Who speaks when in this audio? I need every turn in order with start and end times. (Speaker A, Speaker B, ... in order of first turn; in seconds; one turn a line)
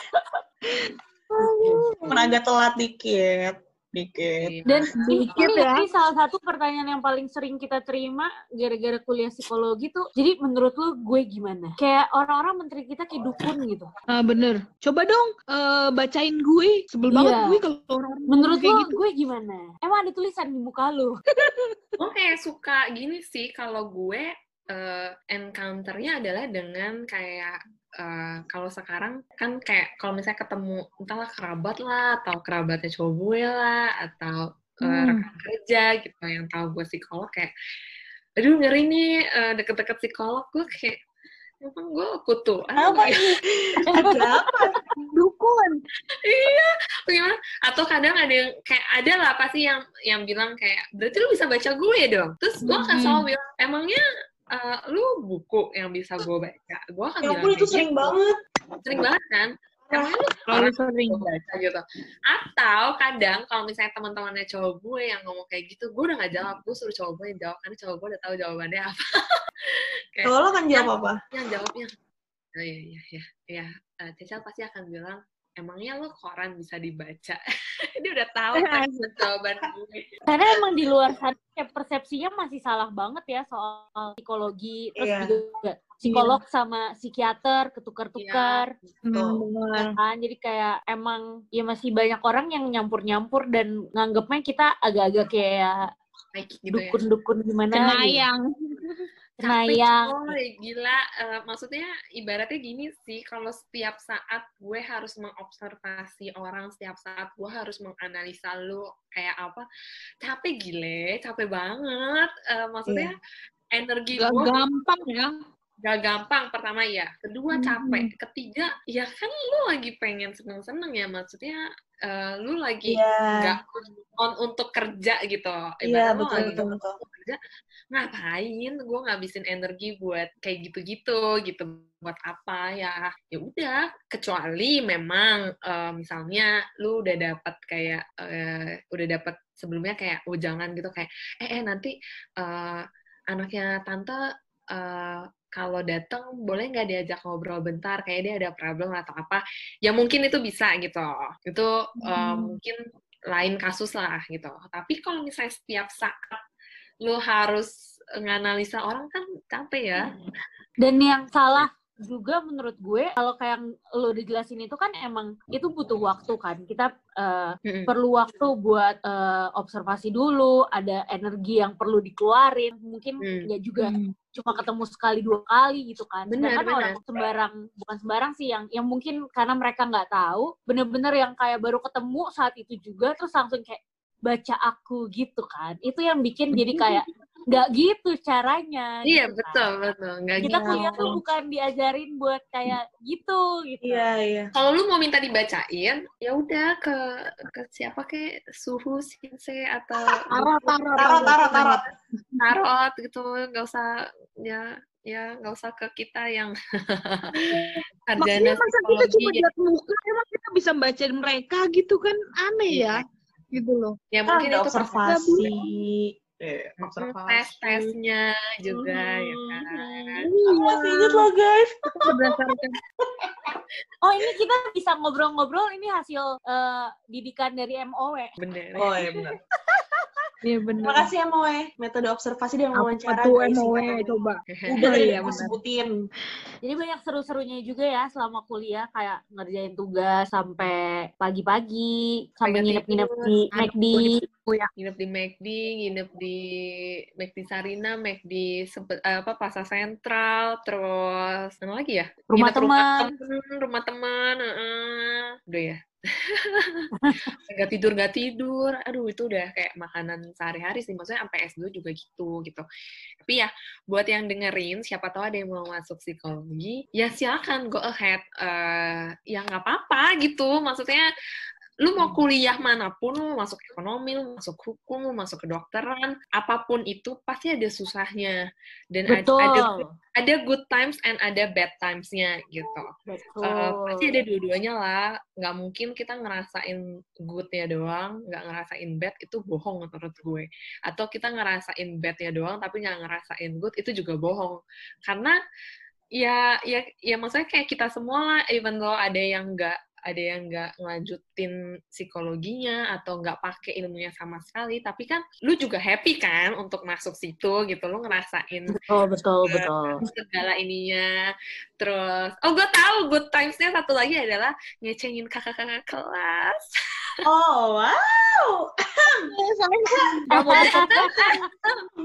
Speaker A: 0.7-2.3
Speaker B: 2.0-4.5
Speaker C: 4.4-5.5
Speaker D: 4.7-13.9
Speaker A: 4.9-5.9
Speaker A: 14.1-18.9
Speaker D: 17.1-17.6
Speaker D: 18.3-21.1
Speaker A: 21.4-21.7
Speaker C: 22.0-37.5
Speaker A: 34.8-35.3
Speaker C: 38.4-41.0
Speaker C: 41.6-43.2
Speaker B: 42.7-44.8
Speaker A: 43.8-45.8
Speaker C: 46.2-54.0
Speaker A: 52.6-53.3
Speaker C: 54.5-58.1
Speaker B: 57.2-58.4
Speaker C: 58.8-69.0
Speaker A: 60.5-61.2
Speaker C: 70.2-71.9
Speaker B: 70.2-71.2
Speaker C: 72.5-77.4
Speaker C: 78.0-80.1
Speaker A: 78.5-79.1
Speaker D: 80.3-88.7
Speaker B: 85.0-85.4
Speaker C: 88.2-88.9
Speaker A: 89.1-90.0
Speaker B: 89.1-89.9
Speaker D: 90.0-95.9
Speaker C: 96.3-97.0
Speaker D: 96.7-98.2
Speaker A: 97.7-99.1
Speaker C: 99.4-109.6
Speaker D: 99.4-100.3
Speaker C: 110.2-113.2
Speaker B: 112.8-113.1
Speaker C: 113.7-114.6
Speaker A: 114.2-115.4
Speaker C: 115.8-127.4
Speaker A: 117.5-118.1
Speaker B: 122.8-123.6
Speaker B: 125.8-127.0
Speaker A: 126.3-126.7
Speaker C: 127.9-144.2
Speaker C: 144.7-152.8
Speaker A: 152.1-152.6
Speaker C: 153.3-156.4
Speaker C: 157.0-160.1
Speaker D: 160.8-189.7
Speaker C: 167.7-167.9
Speaker C: 173.2-173.5
Speaker A: 173.8-174.1
Speaker C: 176.3-177.0
Speaker C: 189.0-191.2
Speaker B: 190.4-191.2
Speaker D: 190.4-194.1
Speaker B: 193.8-194.5
Speaker C: 194.5-200.3
Speaker B: 200.1-201.8
Speaker A: 200.3-201.8
Speaker C: 202.4-209.5
Speaker A: 207.3-213.0
Speaker C: 212.7-213.1
Speaker A: 213.5-214.0
Speaker C: 214.1-215.0
Speaker B: 214.3-217.9
Speaker A: 215.1-215.6
Speaker C: 216.8-220.3
Speaker B: 218.7-222.3
Speaker A: 220.2-221.3
Speaker A: 221.9-222.8
Speaker D: 224.0-228.3
Speaker C: 228.4-229.3
Speaker B: 228.8-229.3
Speaker A: 230.4-231.1
Speaker B: 230.8-234.2
Speaker A: 232.7-235.6
Speaker C: 234.5-235.4
Speaker B: 234.7-236.0
Speaker D: 236.6-244.1
Speaker C: 242.4-243.3
Speaker A: 243.5-244.7
Speaker C: 244.8-256.9
Speaker D: 252.3-253.1
Speaker D: 256.9-257.3
Speaker C: 257.5-262.6
Speaker C: 263.2-271.1
Speaker C: 271.8-278.4
Speaker C: 278.9-282.9
Speaker D: 279.1-279.8
Speaker D: 283.1-284.1
Speaker C: 283.4-295.4
Speaker C: 296.2-308.8
Speaker D: 308.7-310.0
Speaker C: 309.5-311.1
Speaker C: 311.8-316.6
Speaker B: 317.2-319.3
Speaker A: 319.3-320.9
Speaker B: 319.9-320.2
Speaker D: 320.3-321.2
Speaker C: 320.5-321.7